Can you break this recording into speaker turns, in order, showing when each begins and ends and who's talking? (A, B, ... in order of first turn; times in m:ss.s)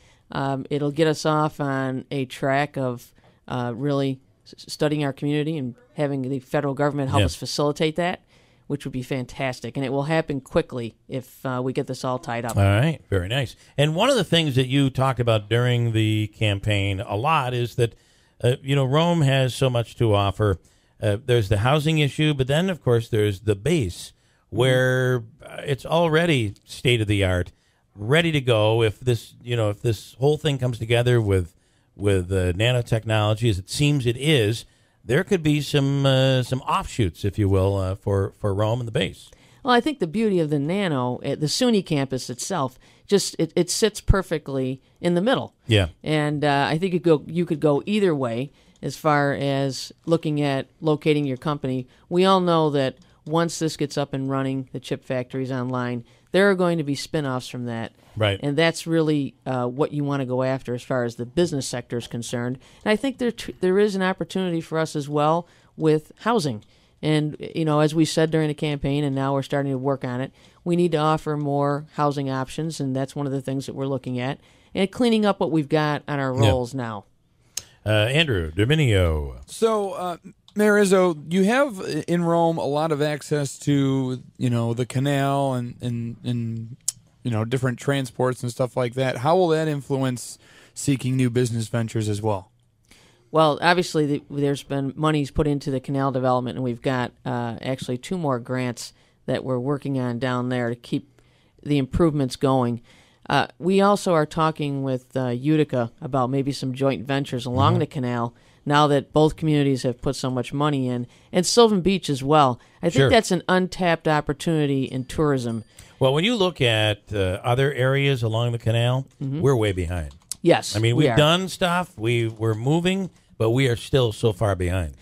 0:00.3-0:12.6 A
0:12.5-0:39.3 B
0:24.5-0:24.8 A
0:39.6-1:17.0 A
1:17.8-1:19.4 B
1:19.5-1:32.5 C
1:33.3-1:41.1 A
1:41.6-1:55.6 A
1:47.6-1:47.8 B
1:52.9-1:53.2 B
1:56.0-2:00.2 B
1:59.2-1:59.4 A
2:00.4-2:01.3 A
2:00.7-2:04.9 B